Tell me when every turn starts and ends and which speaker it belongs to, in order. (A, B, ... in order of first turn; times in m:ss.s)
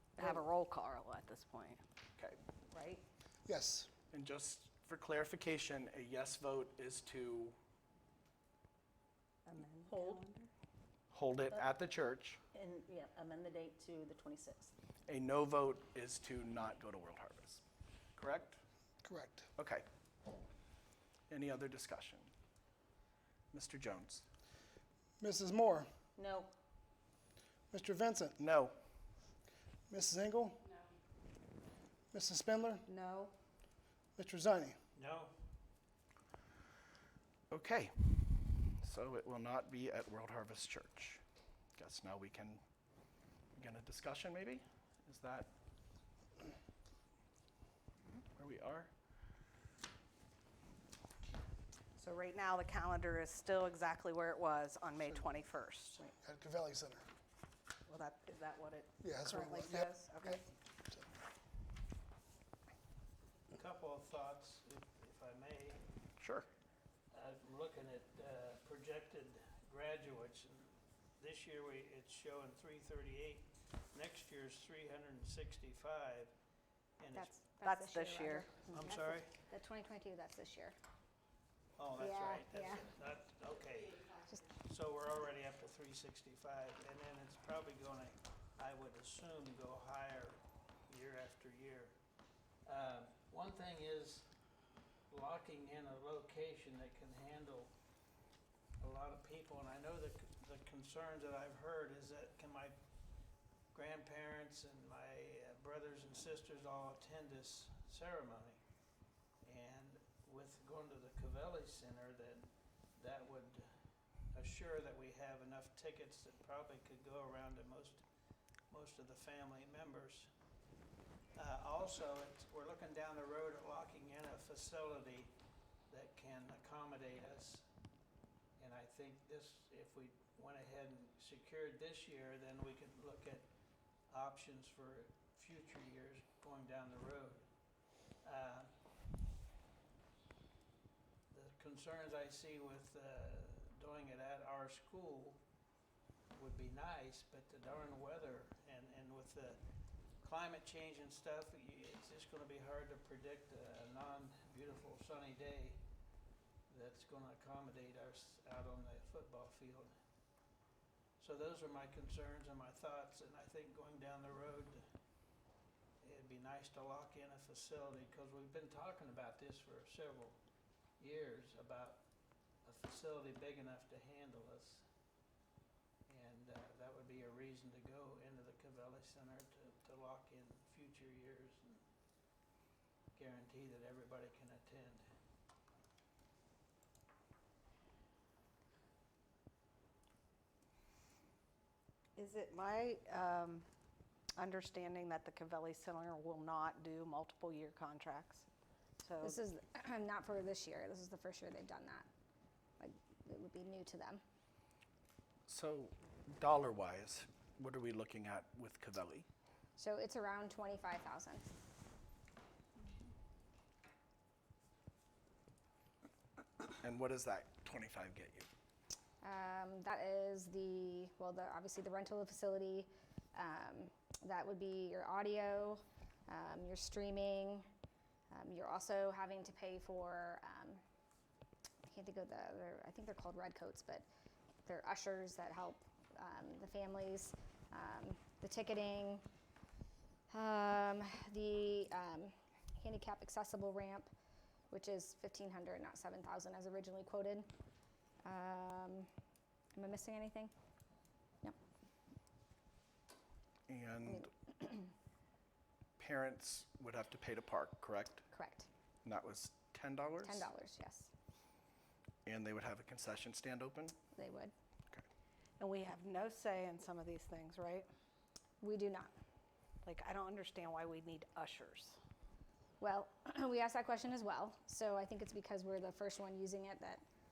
0:00.2-0:01.8 A
0:02.7-0:03.0 A
0:03.4-0:03.9 B
0:04.1-0:07.6 C
0:09.4-0:10.5 A
0:09.8-0:10.2 D
0:11.1-0:12.4 C
0:12.5-0:14.7 D
0:15.1-0:17.6 C
0:18.2-0:18.6 C
0:19.0-0:19.5 B
0:19.6-0:19.8 C
0:21.3-0:22.3 C
0:23.5-0:24.2 C
0:25.2-0:25.9 B
0:26.2-0:26.5 D
0:27.7-0:28.4 B
0:28.4-0:28.7 C
0:29.9-0:30.6 B
0:32.1-0:32.8 B
0:32.9-0:33.3 A
0:34.2-0:34.8 B
0:34.9-0:35.3 E
0:37.5-0:41.2 C
0:41.8-0:42.6 C
0:43.5-0:45.5 C
0:48.3-0:48.9 C
0:52.0-0:56.1 A
0:55.1-0:55.4 B
0:56.0-0:57.0 B
0:57.9-1:00.4 A
0:59.0-1:01.0 B
1:03.5-1:05.8 E
1:06.2-1:06.5 C
1:07.1-1:16.3 E
1:17.0-1:17.3 E
1:17.1-1:20.7 F
1:17.6-1:18.6 A
1:18.7-1:19.3 E
1:21.8-1:32.0 E
1:22.0-1:22.9 F
1:32.6-1:34.3 E
1:35.1-1:37.7 E
1:38.8-1:42.8 E
1:43.7-1:48.6 E
1:49.4-1:53.7 E
1:54.3-1:58.0 E
1:58.7-2:00.3 E
2:01.3-2:05.3 E
2:05.9-2:07.6 E
2:08.6-2:13.5 E
2:14.1-2:17.5 E
2:18.2-2:18.7 E
2:21.3-2:25.4 E
2:26.3-2:29.6 E
2:30.2-2:35.8 E
2:36.7-2:39.9 E
2:41.2-2:44.8 E
2:46.0-2:50.4 E
2:51.0-2:52.0 E
2:52.6-2:54.8 E
2:56.1-3:01.8 E
3:03.1-3:05.0 E
3:12.2-3:13.6 A
3:14.4-3:18.5 A
3:19.0-3:19.4 A
3:19.2-3:22.1 F
3:22.8-3:24.2 F
3:25.5-3:29.2 C
3:29.8-3:31.5 F
3:36.8-3:38.5 C
3:39.2-3:47.6 F
3:48.3-3:50.8 F
3:51.8-3:54.1 F
3:54.6-3:59.2 F
4:00.3-4:04.1 F
4:04.7-4:07.5 F
4:08.2-4:09.1 F
4:09.8-4:10.5 F
4:13.7-4:14.3 C
4:14.0-4:14.9 F
4:16.0-4:18.2 C
4:18.3-4:18.7 F
4:19.0-4:20.5 C
4:20.2-4:21.1 F
4:22.2-4:23.9 C
4:24.1-4:24.5 F
4:25.6-4:27.9 A
4:28.6-4:29.1 F
4:29.8-4:32.0 A
4:32.8-4:37.0 F